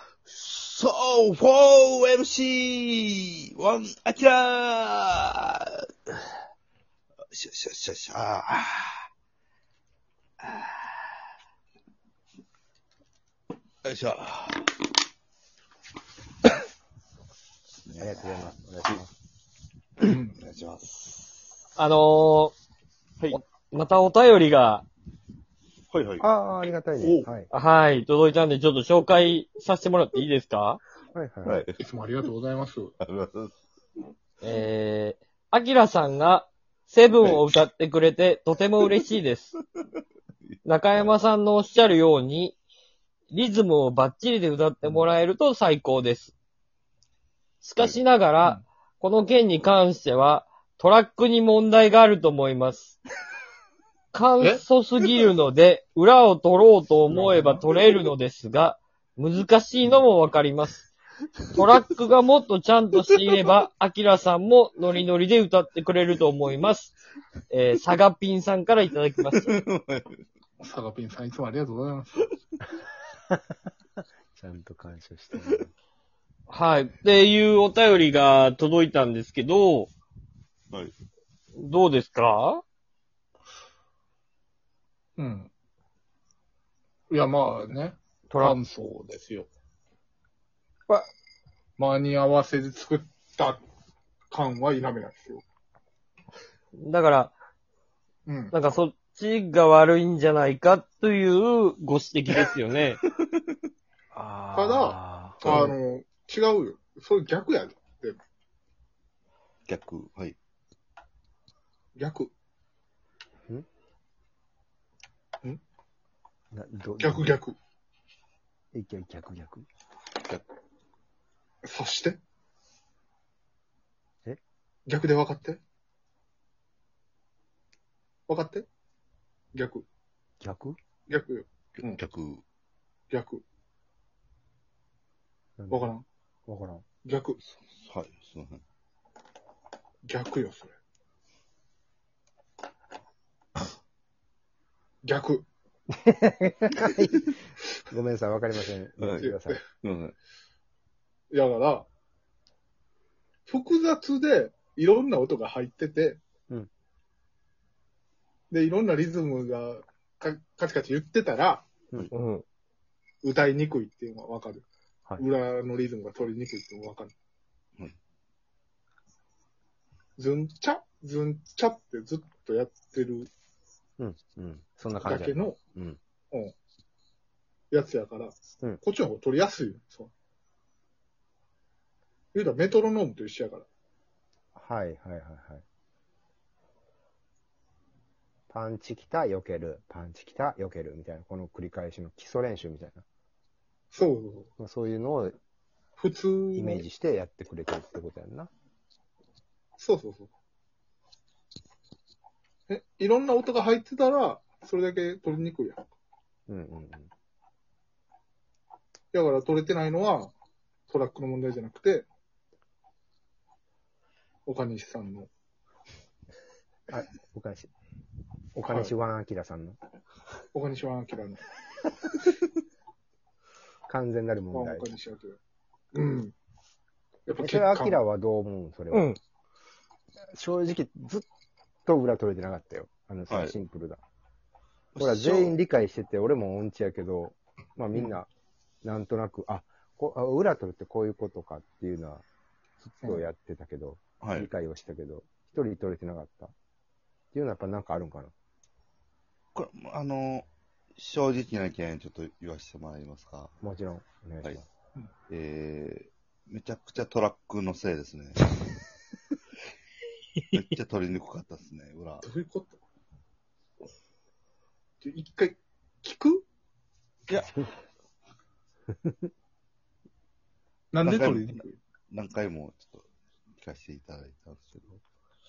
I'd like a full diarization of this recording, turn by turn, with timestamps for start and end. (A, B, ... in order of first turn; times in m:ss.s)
0:00.3-0:06.2 A
0:07.3-0:09.0 A
0:13.8-0:14.7 A
0:17.9-0:19.0 A
0:18.0-0:19.1 B
0:20.0-0:20.4 C
0:20.1-0:21.2 A
0:21.8-0:22.5 D
0:23.3-0:24.8 D
0:25.9-0:26.2 A
0:26.2-0:27.5 B
0:27.0-0:27.3 C
0:27.5-0:30.8 D
0:31.1-0:31.7 B
0:31.4-0:31.8 A
0:31.8-0:32.9 C
0:33.0-0:33.5 A
0:34.4-0:39.6 D
0:37.2-0:37.5 A
0:40.6-0:42.6 D
0:43.3-0:46.3 D
0:47.6-0:53.0 D
0:54.1-1:00.9 D
0:57.1-0:57.6 C
1:01.5-1:06.9 D
1:07.5-1:09.5 D
1:09.4-1:10.2 A
1:10.6-1:12.3 C
1:14.3-1:15.7 B
1:16.5-1:19.9 D
1:21.6-1:22.6 D
1:25.2-1:25.5 C
1:27.1-1:29.5 C
1:28.3-1:28.6 D
1:31.8-1:33.6 C
1:34.3-1:35.4 C
1:36.8-1:37.3 D
1:38.3-1:38.5 C
1:38.5-1:43.0 D
1:44.2-1:45.7 B
1:44.5-1:48.2 C
1:49.7-1:50.4 A
1:52.0-1:52.3 C
1:56.5-1:57.3 B
1:57.0-1:57.6 C
1:58.7-1:59.6 B
2:01.6-2:02.2 C
2:04.9-2:05.6 C
2:08.3-2:08.7 C
2:09.5-2:09.8 C
2:10.4-2:10.8 B
2:11.1-2:12.0 C
2:11.9-2:12.4 A
2:13.1-2:13.4 C
2:15.6-2:15.9 B
2:15.7-2:16.0 C
2:16.5-2:16.8 B
2:17.0-2:17.4 C
2:17.8-2:18.6 A
2:20.1-2:20.7 C
2:25.0-2:25.5 C
2:25.9-2:27.3 B
2:27.9-2:29.6 B
2:29.0-2:30.2 A
2:29.2-2:29.6 C
2:31.3-2:31.9 C
2:33.5-2:36.2 C
2:38.5-2:41.7 C
2:42.1-2:42.4 D
2:43.2-2:44.6 C
2:45.2-2:47.1 C
2:50.2-2:53.3 C
2:54.0-2:56.0 B
2:55.0-2:55.6 C
2:57.7-3:00.1 C
3:02.3-3:03.7 C
3:04.6-3:05.6 B
3:08.5-3:13.0 B
3:13.9-3:14.5 C
3:14.6-3:15.4 B
3:16.0-3:16.9 C
3:16.6-3:18.5 B
3:19.8-3:20.3 C
3:22.7-3:25.9 C
3:26.5-3:27.1 B
3:29.1-3:30.3 C
3:30.9-3:32.1 C
3:34.5-3:35.3 C
3:36.9-3:37.7 B
3:38.6-3:39.8 B
3:40.5-3:41.4 C
3:43.9-3:44.9 B
3:44.5-3:45.4 C
3:45.9-3:46.3 C
3:47.3-3:48.0 C
3:47.4-3:49.2 B
3:48.9-3:49.2 D
3:50.3-3:51.2 B
3:51.8-3:54.0 B
3:53.3-3:53.6 A
3:55.0-3:55.5 A
3:55.0-3:58.3 B
3:58.8-4:02.2 B
4:02.9-4:06.5 B
4:04.2-4:04.5 A
4:07.3-4:08.3 B
4:09.6-4:13.5 A
4:13.6-4:14.7 B
4:15.3-4:18.4 A
4:20.5-4:22.3 A
4:22.2-4:22.8 C
4:25.0-4:26.4 C
4:27.3-4:27.5 A
4:30.9-4:31.8 C
4:31.0-4:33.1 A
4:33.6-4:35.0 A